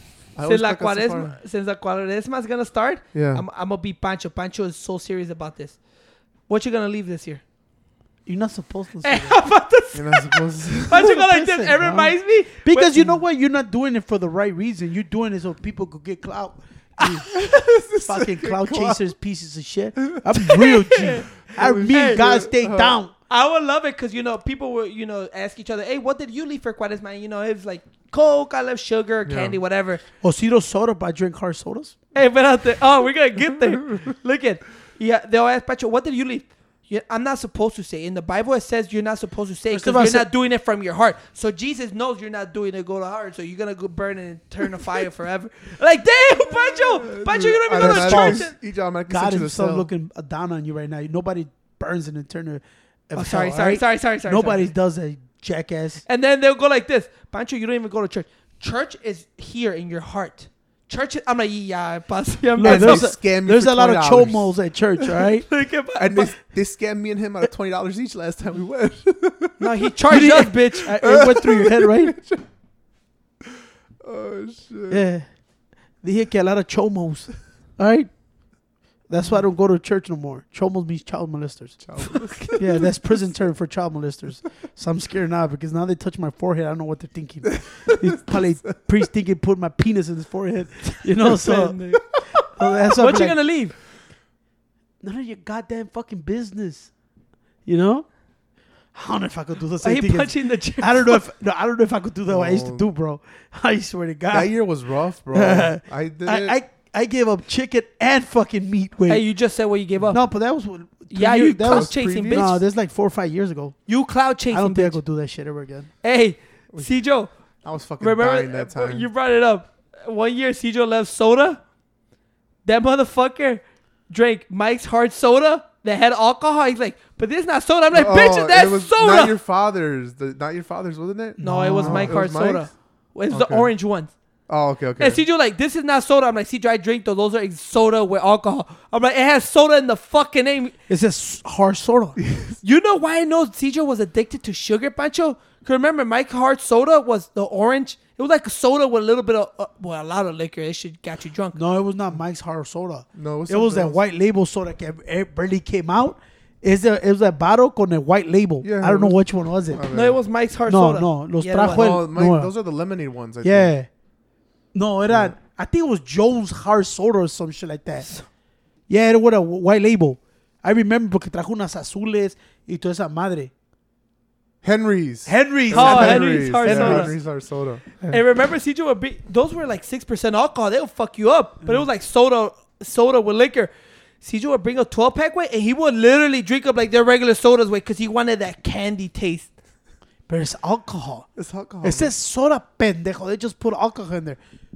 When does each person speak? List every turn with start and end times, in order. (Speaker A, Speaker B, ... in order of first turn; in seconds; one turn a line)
Speaker A: 0.3-1.4
Speaker B: 0.4-5.8
Speaker A: 3.1-3.4
Speaker B: 6.5-7.4
Speaker C: 8.2-9.4
Speaker B: 9.0-13.1
Speaker A: 9.9-11.1
Speaker C: 10.9-17.3
Speaker B: 17.1-17.5
Speaker A: 17.2-19.0
Speaker C: 18.0-23.1
Speaker A: 20.0-22.9
Speaker B: 20.5-22.2
Speaker B: 23.3-30.0
Speaker A: 29.2-29.6
Speaker C: 30.2-31.9
Speaker B: 32.1-48.5
Speaker C: 39.7-40.3
Speaker A: 46.5-49.9
Speaker C: 47.7-48.5
Speaker C: 49.1-56.0
Speaker B: 53.1-54.7
Speaker B: 56.0-63.0
Speaker C: 62.6-65.5
Speaker A: 62.6-65.3
Speaker B: 65.5-66.3
Speaker A: 66.0-72.4
Speaker B: 69.6-71.0
Speaker C: 70.1-72.2
Speaker A: 73.5-75.0
Speaker C: 74.9-75.2
Speaker C: 76.0-78.1
Speaker C: 79.1-81.8
Speaker A: 81.8-83.1
Speaker B: 82.3-82.5
Speaker C: 82.4-93.4
Speaker A: 87.5-88.8
Speaker B: 91.2-93.7
Speaker C: 95.0-96.9
Speaker C: 97.6-98.1
Speaker C: 98.9-104.5
Speaker B: 99.8-101.2
Speaker A: 102.3-102.9
Speaker A: 104.3-106.6
Speaker C: 105.3-109.2
Speaker B: 109.1-110.2
Speaker C: 110.1-113.8
Speaker B: 111.1-112.6
Speaker A: 111.6-112.5
Speaker B: 113.9-115.0
Speaker C: 114.5-115.9
Speaker B: 116.0-117.3
Speaker A: 117.6-119.1
Speaker B: 118.0-121.6
Speaker B: 122.6-129.3
Speaker A: 127.9-132.7
Speaker C: 131.4-132.2
Speaker B: 131.4-134.1
Speaker A: 133.3-133.7
Speaker A: 134.5-135.2
Speaker B: 135.0-140.7
Speaker C: 140.9-142.2
Speaker A: 142.2-142.6
Speaker B: 142.6-151.6
Speaker C: 151.5-159.8
Speaker A: 153.1-154.0
Speaker A: 158.6-160.2
Speaker B: 159.9-161.8
Speaker C: 160.7-162.5
Speaker A: 161.7-163.7
Speaker C: 163.4-163.9
Speaker C: 164.7-168.1
Speaker A: 165.1-165.3
Speaker C: 168.9-173.5
Speaker A: 174.6-177.8
Speaker C: 175.2-177.1
Speaker B: 175.7-177.1
Speaker B: 178.1-189.5
Speaker C: 190.3-191.3
Speaker A: 191.3-192.1
Speaker C: 191.8-194.4